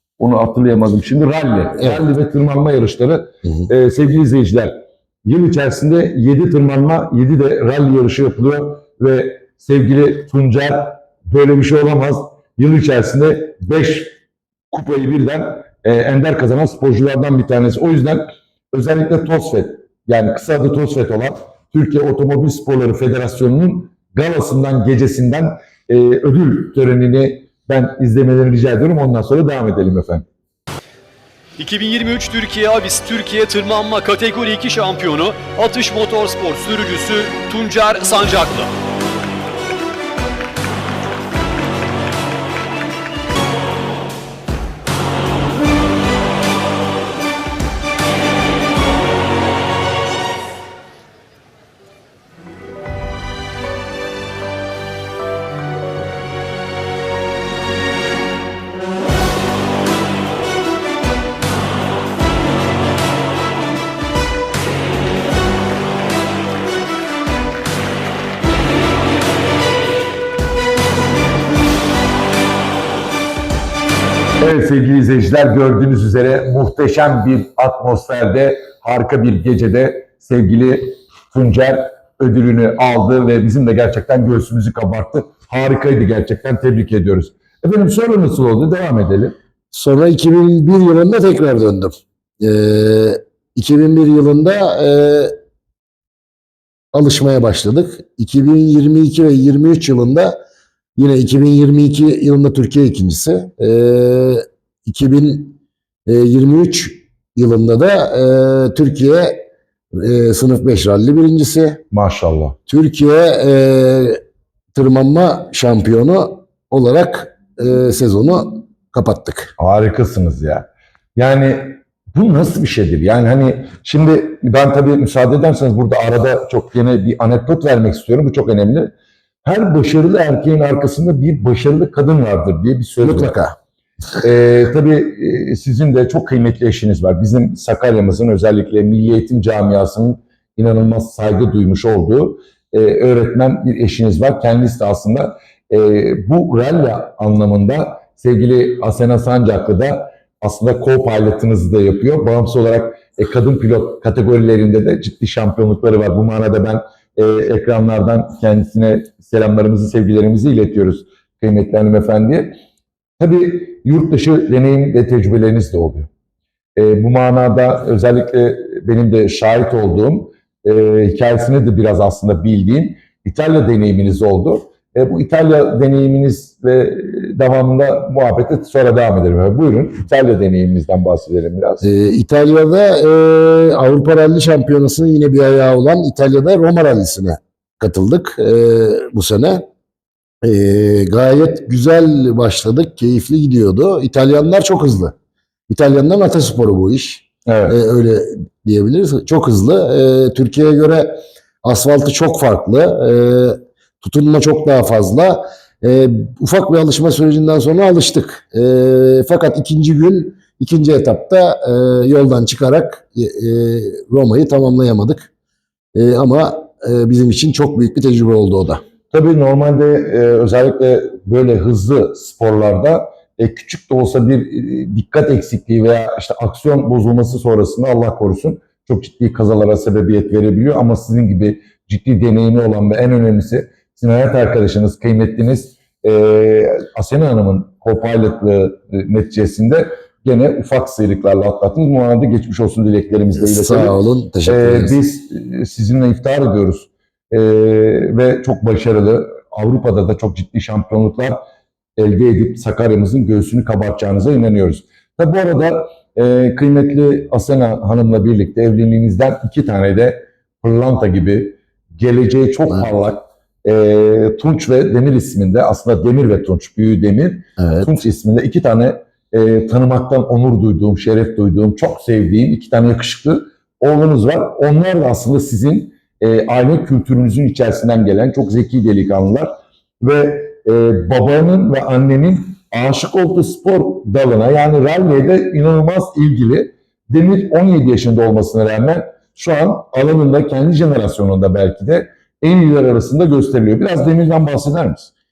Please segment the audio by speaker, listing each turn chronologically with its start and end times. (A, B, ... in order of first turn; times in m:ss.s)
0:00.2-0:14.1 A
0:14.7-0:30.2 A
0:31.6-0:38.7 B
1:14.4-1:29.3 A
1:29.7-1:35.4 C
1:36.9-1:40.4 C
1:41.0-1:49.4 C
1:49.9-1:51.8 C
1:51.9-1:52.6 A
1:52.7-1:54.2 C
1:54.7-1:59.5 C
1:59.6-2:08.9 A
2:09.4-2:13.3 A
2:13.0-2:13.5 C
2:14.2-2:42.6 A
2:43.2-2:46.1 A
2:46.8-3:01.8 A
3:01.8-3:09.6 C
3:10.4-3:15.1 C
3:15.7-3:35.3 C
3:17.5-3:17.8 A
3:35.9-3:38.8 C
3:39.1-4:11.4 A
4:03.4-4:05.0 C
4:12.0-4:55.1 A
4:27.6-4:28.0 C